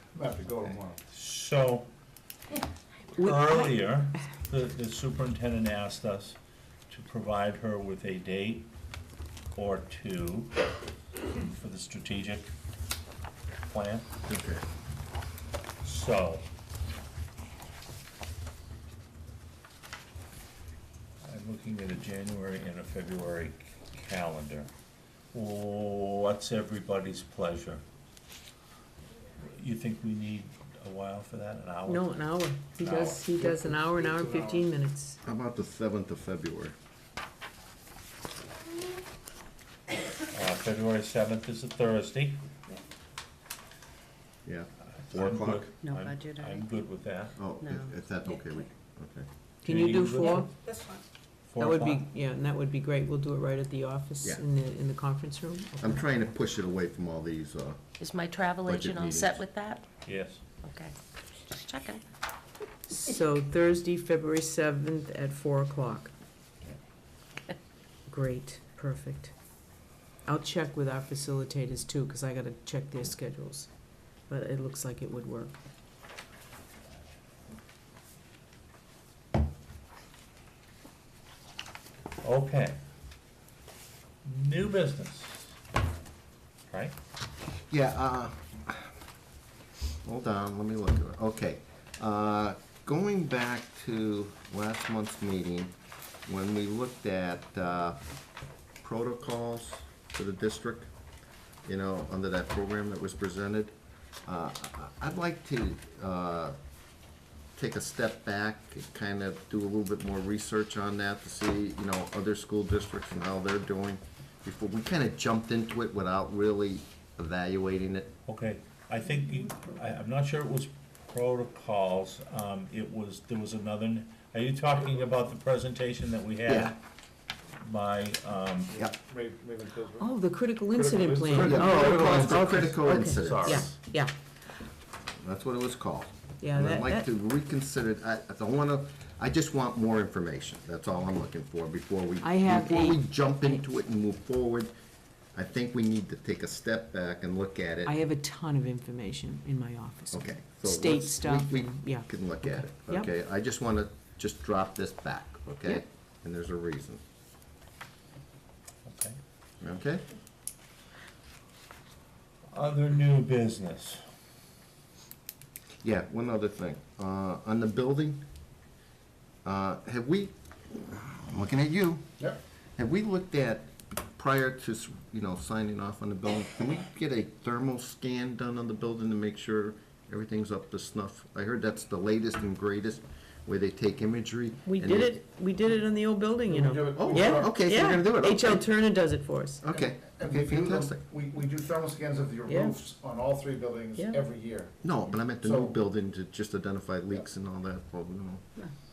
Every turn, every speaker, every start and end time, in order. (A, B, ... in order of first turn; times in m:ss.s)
0:00.2-0:01.0 A
0:01.1-0:01.9 B
0:03.2-0:06.4 B
0:06.9-0:08.7 B
0:09.6-0:10.6 B
0:11.4-0:12.5 B
0:13.7-0:14.2 B
0:14.3-0:14.6 C
0:15.8-0:16.4 B
0:21.2-0:24.7 B
0:25.3-0:27.8 B
0:29.4-0:32.1 B
0:31.8-0:35.2 D
0:32.8-0:33.2 B
0:33.3-0:34.7 A
0:35.2-0:36.8 C
0:40.3-0:42.4 B
0:44.4-0:45.7 C
0:44.9-0:47.4 B
0:45.8-0:46.7 E
0:47.4-0:49.3 C
0:47.6-0:48.4 E
0:49.6-0:50.5 D
0:49.6-0:50.4 B
0:51.5-0:52.0 B
0:51.6-0:56.2 D
0:55.8-0:57.8 C
0:58.0-0:59.8 E
0:58.6-0:59.4 C
1:00.1-1:00.4 B
1:00.6-1:01.0 E
1:01.5-1:02.0 E
1:02.9-1:06.1 D
1:08.1-1:09.3 D
1:10.3-1:13.7 D
1:14.3-1:15.6 D
1:22.2-1:22.8 B
1:24.2-1:25.6 B
1:26.7-1:27.0 B
1:27.7-1:28.9 C
1:30.0-1:38.0 C
1:38.8-1:40.9 C
1:41.6-1:43.8 C
1:44.3-1:46.6 C
1:47.6-1:58.2 C
1:58.3-2:06.8 B
2:06.4-2:06.8 C
2:07.6-2:08.8 B
2:08.7-2:10.1 A
2:10.0-2:14.2 D
2:10.7-2:12.2 A
2:11.4-2:13.7 C
2:11.7-2:13.8 B
2:15.2-2:24.7 C
2:16.4-2:17.1 D
2:22.2-2:23.0 D
2:25.3-2:27.9 C
2:27.8-2:33.1 D
2:30.1-2:37.0 C
2:38.8-2:39.2 B
2:39.6-2:40.1 C
2:42.5-2:44.0 B
2:45.8-2:48.2 C
2:49.4-2:52.1 C
2:52.8-3:05.2 C
3:04.6-3:09.6 D
3:06.5-3:07.5 A
3:07.0-3:08.6 C
3:09.6-3:11.0 C
3:09.7-3:14.8 A
3:12.5-3:12.8 D
3:14.8-3:18.5 C
3:15.4-3:15.8 A